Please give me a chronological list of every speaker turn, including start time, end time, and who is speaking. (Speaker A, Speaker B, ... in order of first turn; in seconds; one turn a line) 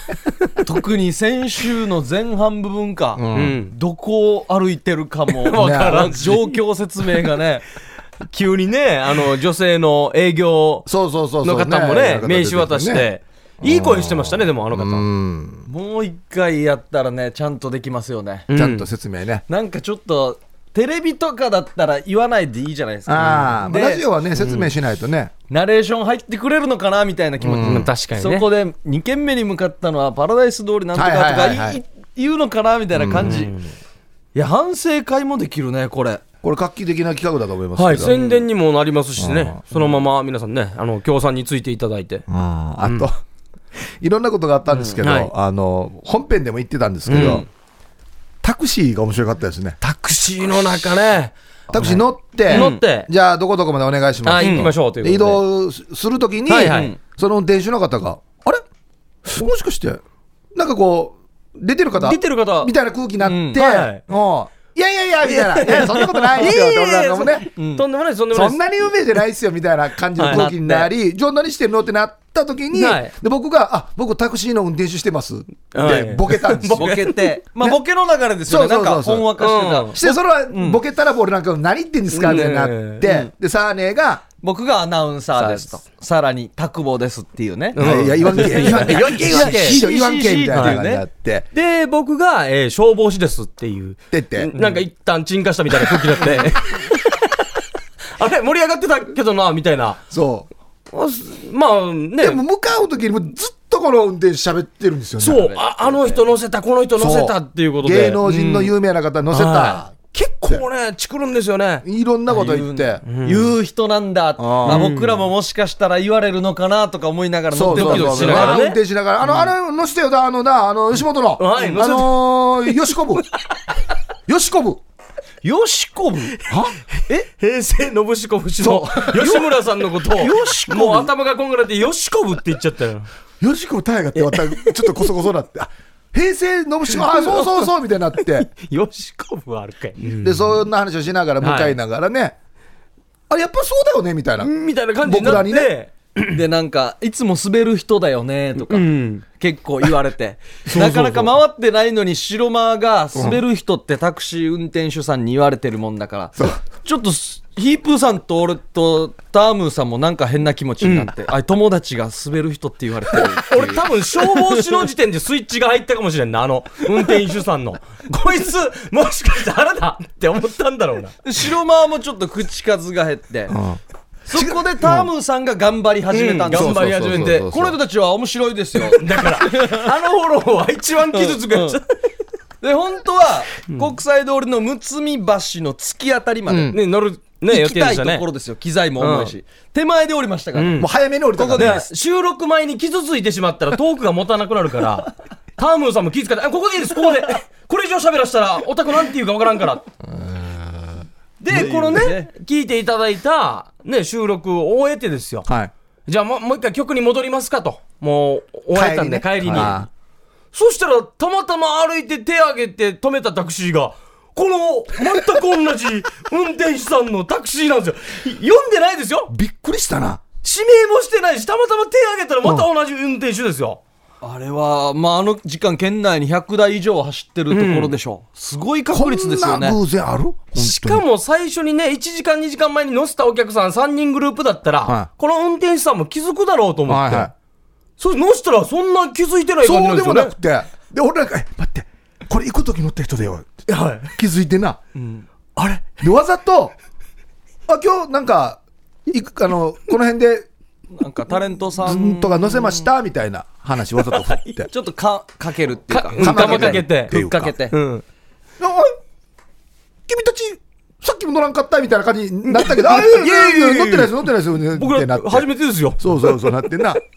Speaker A: 0.6-7.7
Speaker B: 3.1-3.6
Speaker C: 3.3-3.7
Speaker C: 5.4-6.5
Speaker B: 5.5-6.1
Speaker C: 8.3-10.9
Speaker B: 10.9-13.1
Speaker C: 11.4-15.1
Speaker B: 13.6-15.7
Speaker A: 15.7-18.5
Speaker C: 18.5-18.9
Speaker B: 18.5-19.4
Speaker A: 19.5-24.1
Speaker B: 23.1-25.3
Speaker C: 24.4-24.7
Speaker A: 25.5-33.5
Speaker B: 27.4-27.9
Speaker C: 27.6-28.5
Speaker B: 30.9-31.8
Speaker B: 32.9-33.5
Speaker C: 33.2-33.7
Speaker A: 34.4-36.2
Speaker B: 36.4-38.1
Speaker C: 37.8-42.2
Speaker A: 38.0-38.4
Speaker B: 39.2-39.6
Speaker B: 42.3-43.2
Speaker C: 42.8-43.1
Speaker B: 44.0-47.5
Speaker C: 44.8-45.3
Speaker C: 47.1-47.5
Speaker B: 48.4-49.8
Speaker C: 49.8-53.1
Speaker B: 51.7-58.6
Speaker A: 52.5-52.8
Speaker C: 54.2-55.4
Speaker A: 54.4-54.7
Speaker C: 56.5-56.9
Speaker A: 56.5-57.0
Speaker B: 59.2-60.0
Speaker B: 60.5-67.5
Speaker C: 62.0-62.7
Speaker A: 63.2-63.6
Speaker C: 63.5-64.0
Speaker A: 65.3-66.5
Speaker C: 65.7-68.6
Speaker A: 67.5-67.8
Speaker B: 68.3-77.0
Speaker C: 70.2-70.5
Speaker A: 70.2-70.9
Speaker C: 72.7-73.1
Speaker C: 75.7-77.4
Speaker A: 76.7-80.8
Speaker B: 78.5-79.3
Speaker C: 79.4-80.0
Speaker B: 80.0-84.2
Speaker C: 82.1-83.0
Speaker A: 83.0-83.3
Speaker A: 84.4-91.0
Speaker C: 85.3-85.8
Speaker C: 87.8-89.8
Speaker B: 87.8-91.5
Speaker C: 90.5-90.8
Speaker C: 91.5-97.4
Speaker B: 94.1-94.5
Speaker C: 98.2-100.0
Speaker B: 100.1-100.5
Speaker C: 100.9-102.4
Speaker B: 102.2-105.5
Speaker C: 105.2-108.2
Speaker A: 105.3-106.2
Speaker B: 107.0-110.6
Speaker A: 108.2-108.7
Speaker C: 109.3-111.8
Speaker B: 111.8-113.0
Speaker A: 112.3-118.6
Speaker C: 113.0-113.5
Speaker B: 114.4-114.9
Speaker C: 114.7-115.3
Speaker B: 117.5-123.2
Speaker C: 117.7-118.8
Speaker C: 121.4-122.8
Speaker B: 124.3-124.8
Speaker A: 125.4-126.4
Speaker C: 126.5-133.1
Speaker B: 126.5-126.8
Speaker B: 128.6-129.4
Speaker A: 129.1-129.4
Speaker A: 130.1-131.1
Speaker B: 133.4-138.5
Speaker C: 134.2-135.0
Speaker C: 137.0-140.6
Speaker B: 140.2-142.3
Speaker C: 141.4-141.8
Speaker B: 143.3-145.7
Speaker C: 144.4-146.3
Speaker A: 146.3-164.6
Speaker C: 148.7-149.2
Speaker B: 150.7-151.3
Speaker B: 153.2-153.4
Speaker C: 160.8-161.1
Speaker C: 163.4-171.2
Speaker A: 171.2-173.6
Speaker B: 173.5-175.1
Speaker A: 174.3-179.9
Speaker C: 176.1-177.5
Speaker B: 176.5-177.8
Speaker C: 178.9-181.9
Speaker A: 181.1-181.8
Speaker A: 182.6-186.8
Speaker B: 186.5-186.8
Speaker C: 186.7-188.2
Speaker A: 187.5-191.9
Speaker C: 189.0-189.3
Speaker C: 190.6-190.9
Speaker B: 190.8-191.8
Speaker C: 191.5-199.8
Speaker B: 200.0-201.1
Speaker C: 201.4-205.5
Speaker A: 201.5-202.3
Speaker B: 205.5-205.7
Speaker C: 206.1-209.9
Speaker B: 208.7-209.9
Speaker C: 210.5-219.3
Speaker B: 219.3-220.2
Speaker C: 220.4-223.8
Speaker A: 224.2-229.8
Speaker C: 227.5-227.9
Speaker B: 228.9-231.0
Speaker C: 230.6-237.3
Speaker B: 236.9-237.3
Speaker C: 238.0-240.3
Speaker B: 239.6-244.8
Speaker C: 243.7-244.1
Speaker A: 244.9-245.3
Speaker B: 245.6-246.8
Speaker B: 247.7-250.5
Speaker A: 250.9-252.8
Speaker B: 251.8-254.7
Speaker A: 254.7-257.8
Speaker C: 255.9-257.1
Speaker B: 256.2-257.5
Speaker C: 257.7-258.0
Speaker B: 258.6-259.0
Speaker B: 260.1-265.5
Speaker C: 262.5-266.6
Speaker B: 266.0-267.0